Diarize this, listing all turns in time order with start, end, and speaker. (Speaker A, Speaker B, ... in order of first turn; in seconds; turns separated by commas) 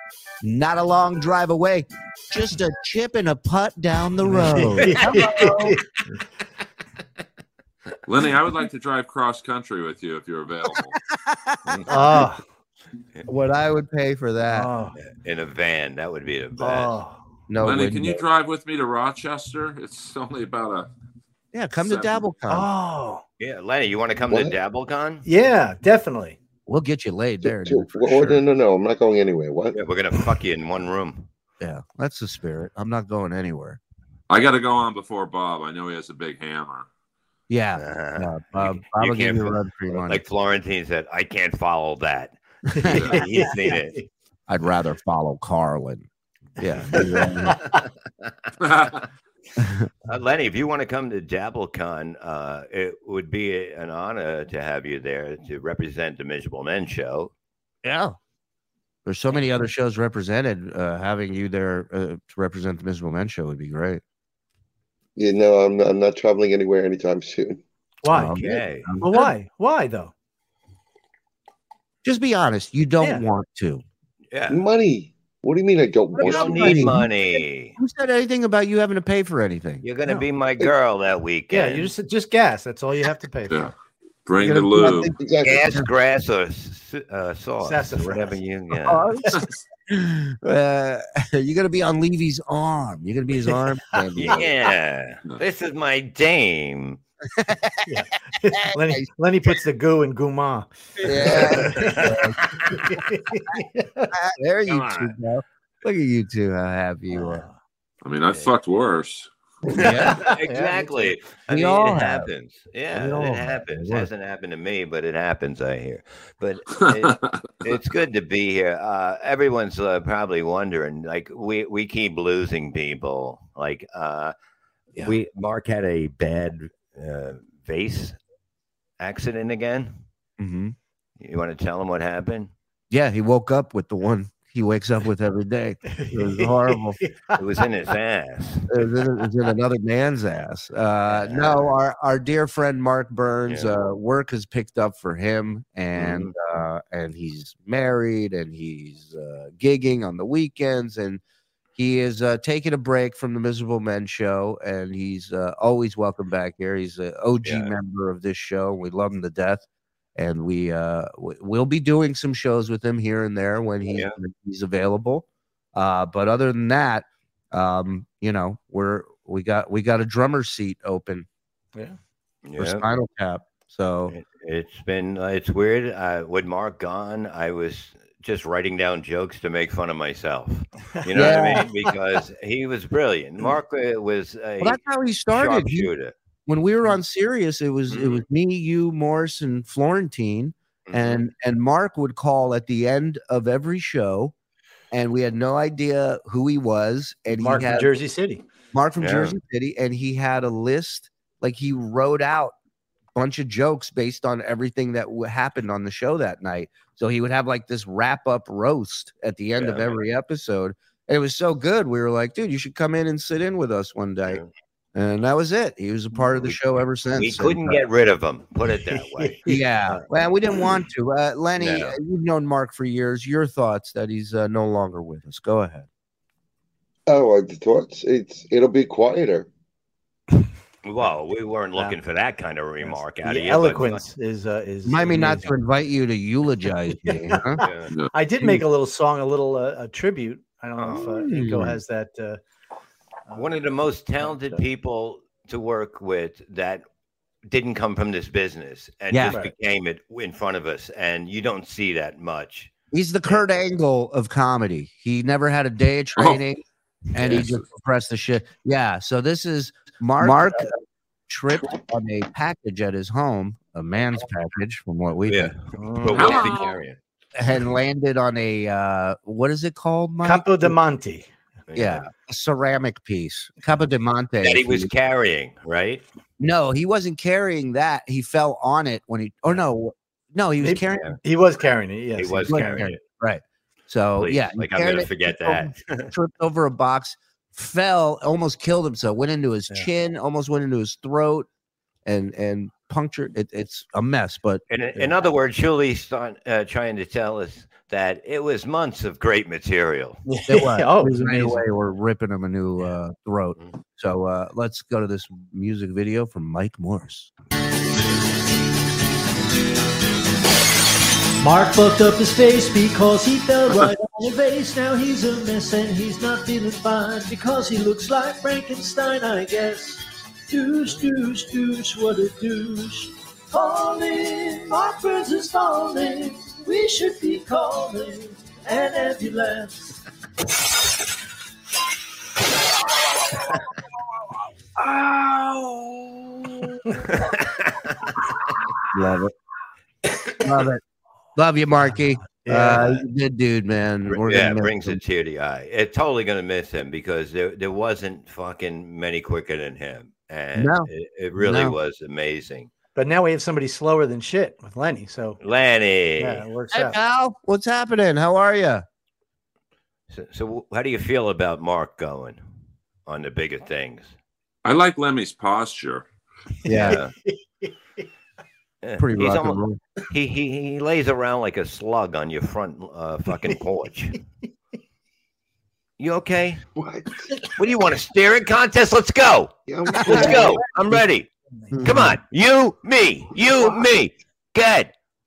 Speaker A: 0.4-5.8, Speaker B: 4.2-5.8, Speaker C: 4.8-5.6, Speaker D: 8.1-11.0, Speaker A: 11.3-12.3, Speaker B: 11.9-12.4, Speaker A: 13.3-14.7, Speaker B: 14.5-14.9, Speaker C: 14.9-17.0, Speaker B: 16.6-17.2, Speaker A: 17.5-18.2, Speaker D: 17.6-20.9, Speaker A: 21.5-22.7, Speaker D: 21.8-22.2, Speaker B: 22.5-23.2, Speaker C: 23.4-25.3, Speaker E: 24.3-24.6, Speaker B: 25.2-26.4, Speaker A: 26.7-28.4, Speaker E: 27.4-29.8, Speaker C: 29.7-31.3, Speaker A: 31.6-33.8, Speaker D: 34.3-36.9, Speaker A: 37.5-40.2, Speaker C: 37.8-44.0, Speaker B: 42.8-44.1, Speaker D: 42.9-43.2, Speaker A: 44.5-47.6, Speaker B: 46.9-47.7, Speaker C: 47.7-48.3, Speaker D: 48.6-49.0, Speaker A: 49.6-49.9, Speaker C: 50.1-57.3, Speaker A: 57.8-58.2, Speaker A: 59.1-64.0, Speaker E: 65.2-67.6, Speaker B: 68.0-68.4, Speaker A: 68.1-69.3, Speaker C: 68.3-68.9, Speaker B: 69.0-70.1, Speaker A: 72.0-73.8, Speaker C: 74.3-74.6, Speaker E: 74.5-76.9, Speaker A: 76.1-77.1, Speaker C: 76.2-77.8, Speaker A: 77.8-79.8, Speaker C: 79.8-81.9, Speaker B: 81.5-83.7, Speaker D: 84.3-85.1, Speaker A: 84.4-85.2, Speaker E: 85.2-85.7, Speaker C: 85.4-89.1, Speaker B: 87.6-88.3, Speaker A: 88.8-94.5, Speaker C: 94.2-97.0, Speaker A: 97.3-97.9, Speaker B: 97.9-102.1, Speaker A: 98.5-99.1, Speaker A: 101.0-102.4, Speaker C: 101.0-102.8, Speaker B: 102.7-104.1, Speaker A: 104.1-107.5, Speaker C: 104.7-105.1, Speaker B: 107.1-107.6, Speaker D: 108.0-109.3, Speaker C: 109.7-124.3, Speaker A: 109.7-110.2, Speaker B: 109.8-111.1, Speaker A: 111.5-112.3, Speaker A: 112.9-114.1, Speaker C: 125.0-128.2, Speaker C: 129.0-130.0, Speaker A: 130.4-130.8, Speaker C: 131.2-132.5, Speaker A: 132.9-137.0, Speaker B: 135.9-137.4, Speaker C: 137.3-138.7, Speaker A: 138.7-151.2, Speaker C: 141.1-141.7, Speaker C: 143.5-143.7, Speaker C: 145.9-146.3, Speaker A: 151.8-159.6, Speaker C: 157.4-157.7, Speaker A: 160.2-171.3, Speaker C: 163.9-164.2, Speaker C: 172.4-172.9, Speaker A: 172.6-174.2, Speaker C: 174.1-184.8, Speaker B: 181.0-181.7, Speaker A: 181.1-181.7, Speaker A: 184.6-185.9, Speaker C: 185.3-186.1, Speaker A: 186.5-194.3, Speaker C: 187.9-188.2, Speaker C: 190.9-191.2, Speaker A: 194.9-198.0, Speaker B: 197.3-198.4, Speaker A: 198.7-202.6, Speaker C: 199.0-199.4, Speaker A: 203.2-214.4, Speaker C: 209.6-209.9, Speaker A: 214.9-217.8, Speaker C: 216.3-216.6, Speaker C: 217.1-220.0, Speaker B: 218.9-219.6, Speaker A: 219.4-225.9, Speaker C: 221.6-222.0, Speaker E: 227.1-229.5, Speaker C: 230.8-234.1, Speaker B: 232.8-235.5, Speaker A: 234.8-237.6, Speaker B: 237.0-242.4, Speaker C: 237.6-237.9, Speaker C: 240.8-241.2, Speaker A: 241.0-241.8, Speaker B: 243.3-243.7, Speaker C: 243.3-246.8, Speaker B: 244.2-244.6, Speaker C: 247.5-252.7, Speaker A: 249.1-249.4, Speaker A: 252.9-256.6, Speaker D: 256.2-256.4, Speaker A: 257.1-260.7, Speaker D: 257.2-257.6, Speaker A: 261.3-265.5, Speaker C: 265.3-267.0, Speaker B: 265.8-266.4, Speaker D: 266.2-266.7, Speaker A: 267.4-270.8, Speaker B: 270.2-271.3, Speaker C: 271.7-272.1, Speaker A: 271.8-274.9, Speaker C: 274.4-276.0, Speaker A: 276.4-281.1, Speaker B: 280.6-282.9, Speaker C: 280.9-281.2, Speaker C: 282.1-283.0, Speaker A: 282.5-291.5, Speaker C: 284.2-286.1, Speaker A: 292.1-294.6, Speaker C: 294.7-300.2, Speaker B: 300.3-301.6, Speaker A: 300.5-307.3, Speaker F: 311.4-329.9, Speaker C: 337.0-338.2, Speaker A: 338.9-339.3, Speaker A: 340.4-340.8, Speaker A: 341.4-345.0, Speaker B: 341.9-343.0, Speaker C: 344.1-352.7, Speaker A: 350.6-351.8, Speaker B: 353.0-355.4, Speaker C: 355.4-356.4, Speaker B: 356.2-357.0, Speaker A: 356.7-358.9, Speaker C: 360.1-362.4, Speaker C: 363.1-364.2, Speaker D: 364.6-366.1, Speaker B: 366.6-368.0, Speaker A: 366.6-367.0, Speaker C: 366.8-367.1, Speaker C: 368.8-374.2, Speaker A: 369.0-369.8, Speaker C: 376.0-376.6, Speaker E: 376.8-377.3, Speaker C: 377.6-381.3, Speaker E: 379.7-380.6, Speaker A: 380.0-380.5, Speaker A: 381.7-382.2, Speaker C: 381.8-384.9